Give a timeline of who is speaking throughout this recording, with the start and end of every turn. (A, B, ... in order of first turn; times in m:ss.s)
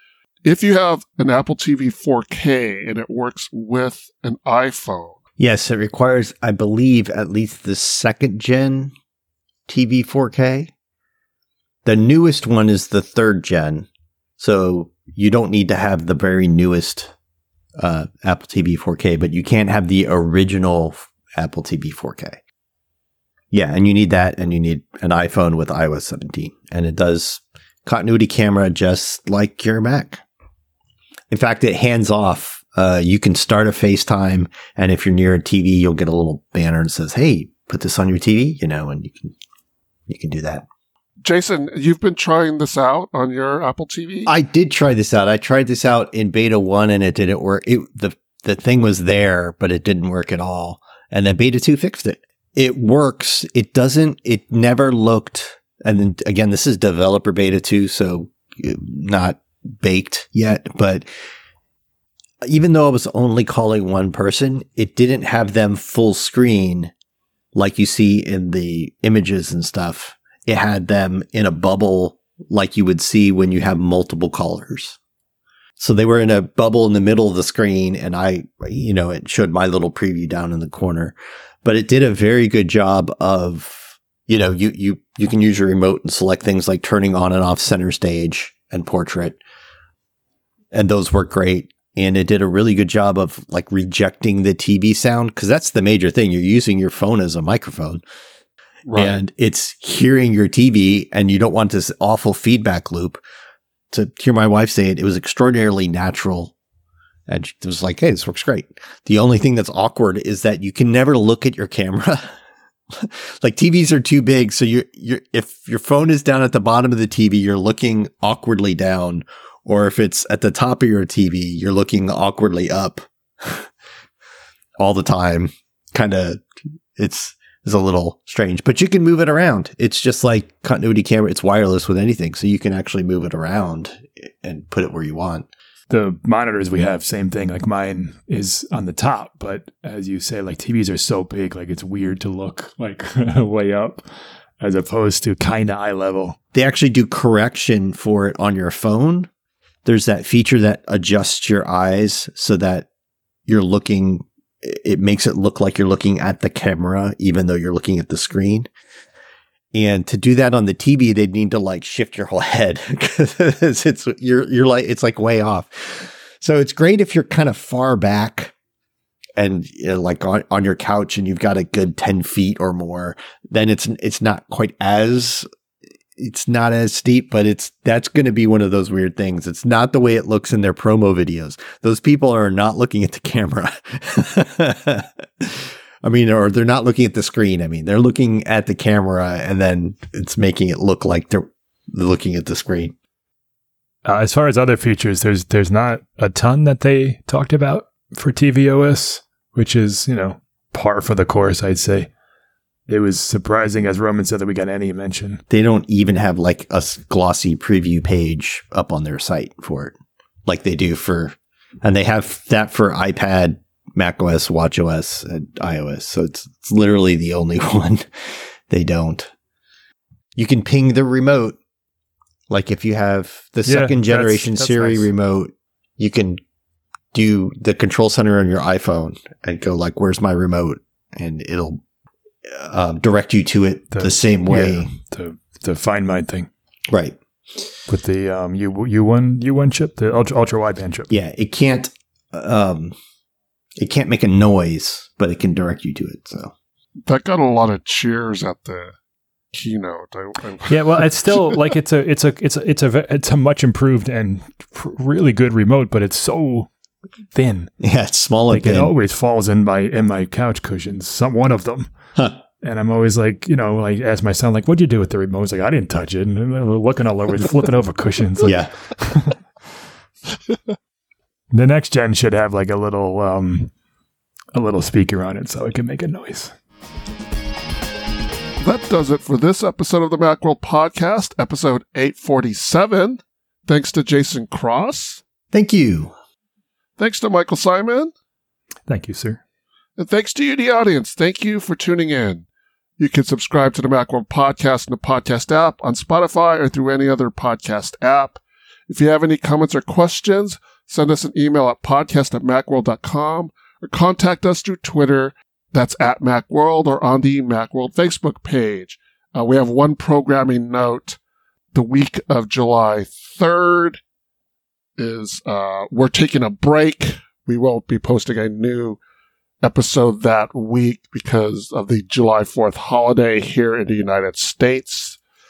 0:00.4-0:05.2 A
0:05.4-0:08.9 B
0:09.7-0:10.7 B
0:11.8-0:13.9 B
0:14.4-0:17.1 B
0:17.8-0:22.4 B
0:23.5-0:30.2 B
0:31.3-0:39.3 B
0:40.1-0:40.7 B
0:41.2-0:44.3 A
0:44.3-1:01.0 B
1:02.4-1:06.9 B
1:07.5-1:15.0 B
1:15.8-1:29.4 B
1:30.7-1:38.0 B
1:38.9-1:39.2 A
1:39.0-1:43.2 B
1:43.9-1:46.5 B
1:47.3-1:52.3 B
1:52.9-2:03.7 B
2:04.8-2:06.4 B
2:07.0-2:15.5 B
2:15.9-2:24.0 C
2:24.6-2:26.4 C
2:26.5-2:29.3 B
2:29.8-2:32.9 B
2:33.5-2:38.7 B
2:39.7-2:48.5 B
2:49.4-2:55.5 B
2:56.2-3:12.9 B
3:14.0-3:22.1 C
3:22.9-3:25.4 C
3:25.5-3:30.0 B
3:30.5-3:39.3 B
3:40.4-3:41.6 B
3:42.5-3:46.4 B
3:43.7-3:45.1 C
3:47.1-3:51.8 B
3:52.5-3:54.9 B
3:53.9-3:56.5 C
3:56.9-3:57.2 B
3:57.9-4:01.1 C
4:01.1-4:03.0 B
4:03.8-4:06.5 B
4:07.1-4:09.0 A
4:09.5-4:11.6 A
4:10.7-4:16.7 C
4:17.3-4:17.7 C
4:17.8-4:18.9 B
4:18.5-4:21.9 C
4:22.6-4:29.4 C
4:28.4-4:28.7 B
4:31.5-4:33.7 C
4:34.5-4:36.5 C
4:38.6-4:45.2 A
4:45.5-4:46.1 B
4:47.0-4:48.1 A
4:48.9-4:49.4 C
4:50.0-4:52.5 A
4:53.0-5:11.2 A
5:11.7-5:14.0 A
5:15.0-5:19.0 A
5:19.6-5:25.2 A